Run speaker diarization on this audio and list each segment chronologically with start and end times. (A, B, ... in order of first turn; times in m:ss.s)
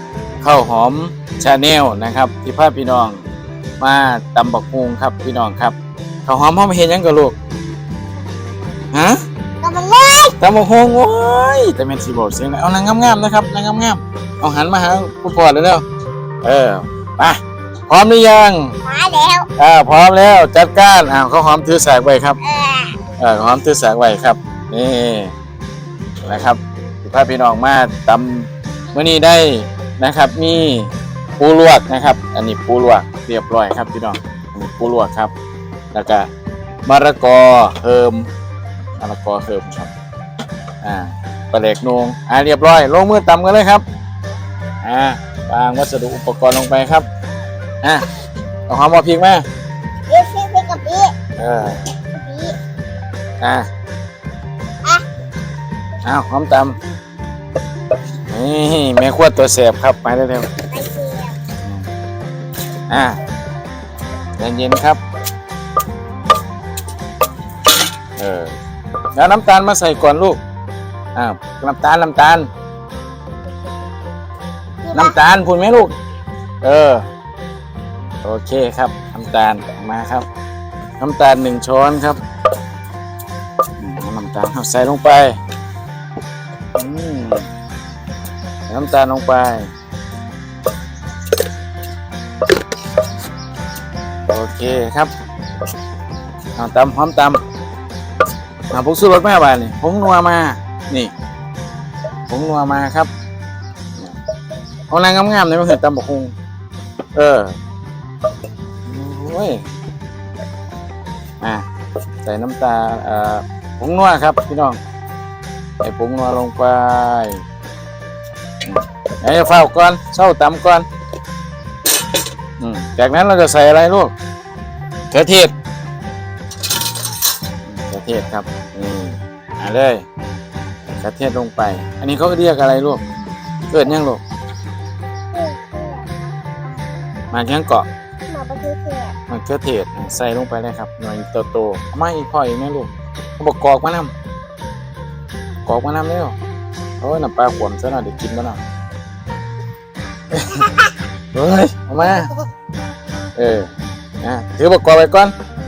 0:00.4-0:03.2 A
0:03.8-0:05.7 A
0:06.2-0:07.3 A
0:08.9-0:09.2 A
0:09.6-0:10.4 B
0:10.4-0:15.8 A
0:16.4-0:18.7 A
0:18.8-0:19.5 B
0:19.6-0:22.4 A
0:22.4-0:23.0 B
0:23.2-0:25.3 A
0:26.2-0:35.3 A
0:35.9-0:36.3 A
0:36.8-0:38.3 A
0:39.0-0:39.9 A
0:40.8-0:43.8 A
0:44.8-0:47.0 A
0:48.7-0:49.4 A
0:50.1-0:51.1 B
0:51.4-0:51.8 A
0:52.1-0:52.6 B
0:53.4-0:53.7 A
0:56.0-0:56.8 A
0:58.3-1:00.5 A
1:00.7-1:01.4 B
1:01.6-1:01.9 A
1:02.9-1:03.2 A
1:04.4-1:05.0 A
1:08.2-1:08.6 A
1:09.1-1:10.4 A
1:11.1-1:12.5 A
1:14.8-1:15.2 B
1:14.9-1:15.9 A
1:16.6-1:17.0 A
1:18.2-1:20.2 A
1:21.0-1:22.2 A
1:23.8-1:25.4 A
1:26.8-1:27.5 A
1:28.7-1:29.7 A
1:34.3-1:35.1 A
1:36.6-1:37.4 A
1:38.7-1:41.1 A
1:42.3-1:43.1 A
1:44.9-1:46.3 A
1:47.1-1:47.6 A
1:48.8-1:49.6 A
1:52.2-1:54.8 A
1:55.8-1:57.4 A
1:58.6-2:00.8 A
2:02.6-2:04.1 A
2:05.1-2:05.5 A
2:07.6-2:10.0 A
2:10.9-2:13.0 A
2:13.7-2:14.2 A
2:15.3-2:16.1 B
2:17.3-2:17.9 A
2:18.3-2:19.1 B
2:19.3-2:24.1 A
2:25.6-2:26.4 A
2:27.0-2:28.6 A
2:30.3-2:32.3 A
2:33.4-2:35.3 A